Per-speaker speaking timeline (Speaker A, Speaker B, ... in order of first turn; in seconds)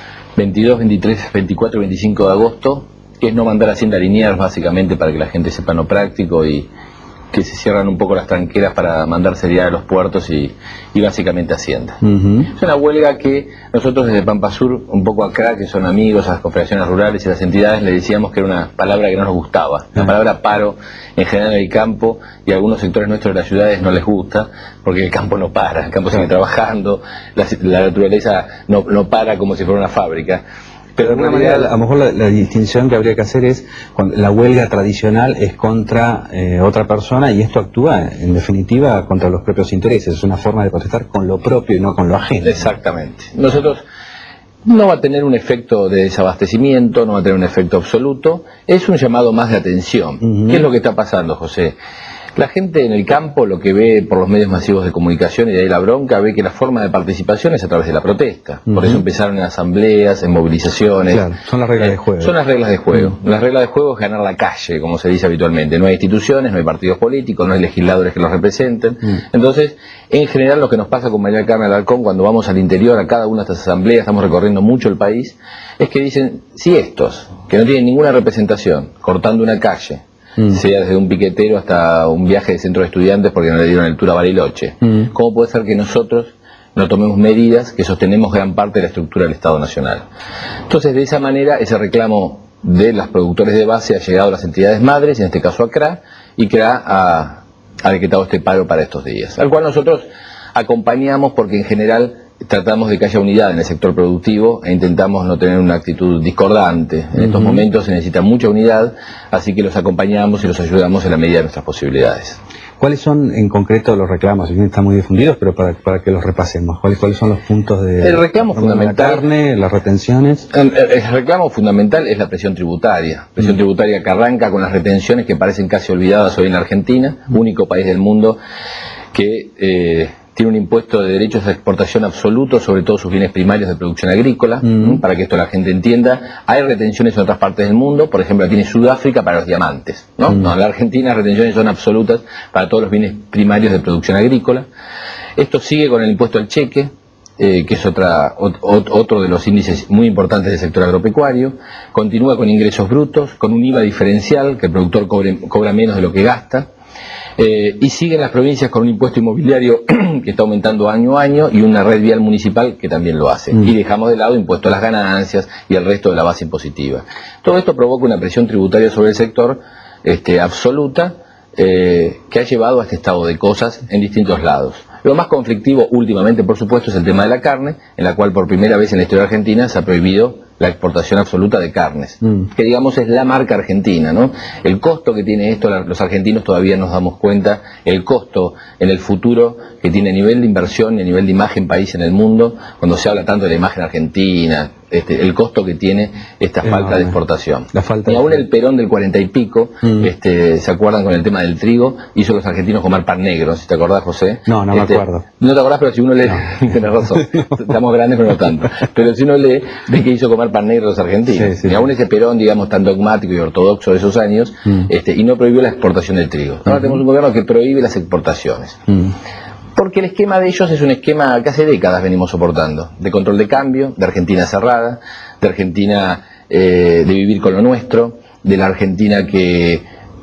Speaker A: 0.4-6.7, 7.3-30.4, 31.0-31.7, 42.4-43.8, 44.6-51.8, 52.4-90.0, 90.7-112.4, 118.0-119.2, 120.5-128.4, 129.1-144.7, 145.4-156.7, 157.4-218.8, 219.8-229.9
Speaker B: 12.0-12.5, 31.0-42.6, 50.2-50.7, 58.7-59.0, 61.1-62.4, 107.2-107.7, 112.8-120.5, 134.6-135.0, 196.6-197.2, 197.7-198.4, 199.8-200.1, 204.5-205.3, 211.3-211.8, 216.7-217.0